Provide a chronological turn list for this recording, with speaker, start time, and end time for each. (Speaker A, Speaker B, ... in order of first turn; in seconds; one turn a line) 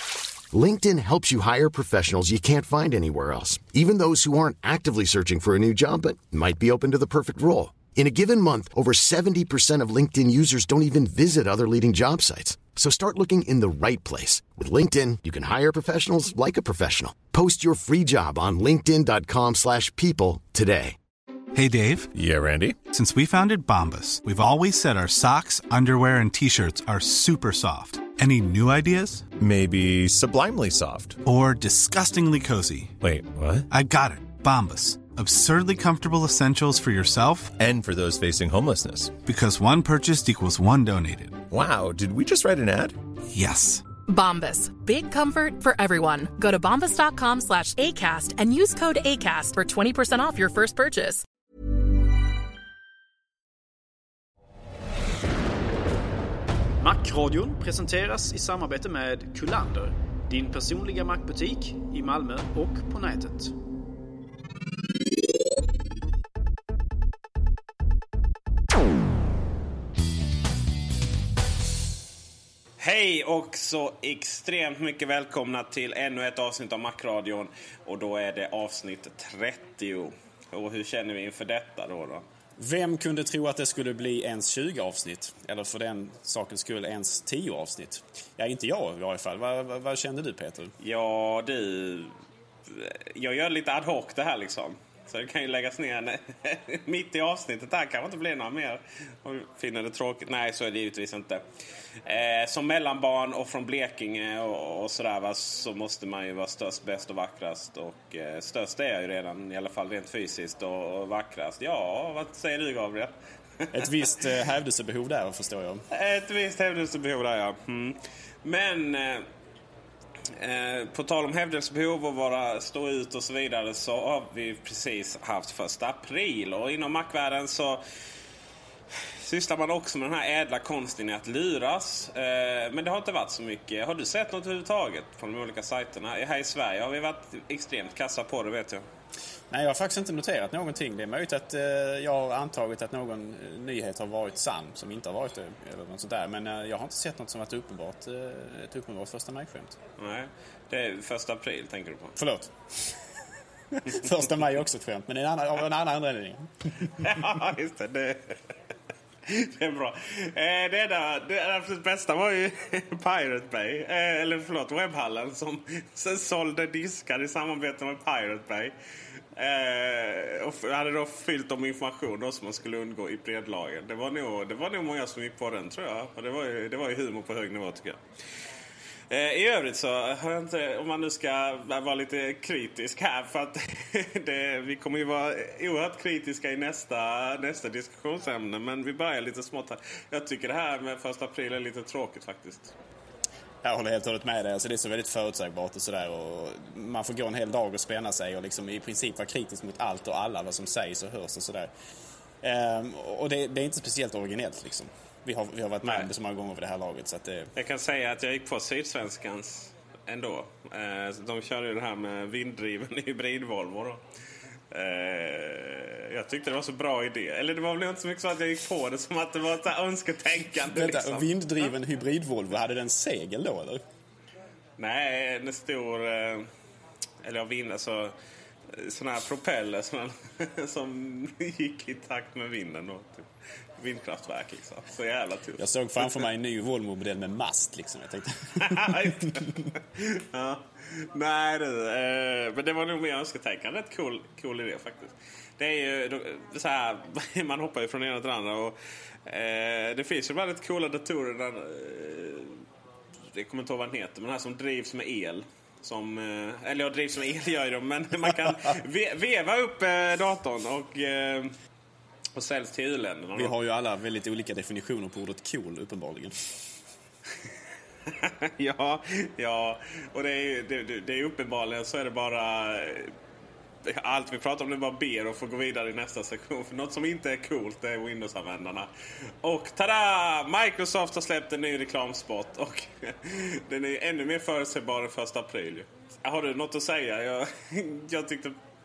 Speaker A: 0.5-21.0
Speaker B: 21.5-22.1
Speaker C: 22.1-22.8
Speaker B: 22.9-29.3
Speaker C: 29.4-31.2
Speaker B: 31.2-33.0
Speaker C: 33.0-33.7
Speaker B: 33.7-37.6
Speaker C: 37.6-39.2
Speaker B: 39.2-41.4
Speaker C: 41.5-43.0
Speaker B: 43.3-43.9
Speaker D: 44.1-51.2
Speaker E: 56.8-63.5
Speaker F: 72.8-82.2
Speaker E: 82.6-90.7
Speaker F: 90.8-92.1
Speaker F: 92.7-101.4
Speaker F: 102.0-113.8
Speaker E: 113.7-115.8
Speaker F: 115.9-119.3
Speaker F: 120.3-127.8
Speaker F: 129.2-138.9
Speaker E: 139.5-149.8
Speaker F: 150.0-152.2
Speaker E: 152.2-152.6
Speaker E: 153.7-157.2
Speaker F: 157.0-158.4
Speaker F: 159.3-168.8
Speaker F: 169.3-178.0
Speaker F: 179.1-192.7
Speaker E: 193.6-201.7
Speaker E: 202.4-207.5
Speaker F: 207.6-214.0
Speaker F: 214.7-221.3
Speaker E: 220.7-223.8
Speaker F: 224.8-226.5
Speaker F: 227.2-228.2
Speaker F: 228.7-235.7
Speaker E: 235.6-239.4
Speaker F: 238.6-252.6
Speaker F: 253.3-261.5
Speaker F: 262.4-263.5
Speaker E: 263.4-266.4
Speaker F: 268.1-273.1
Speaker F: 273.9-278.9
Speaker F: 279.4-288.6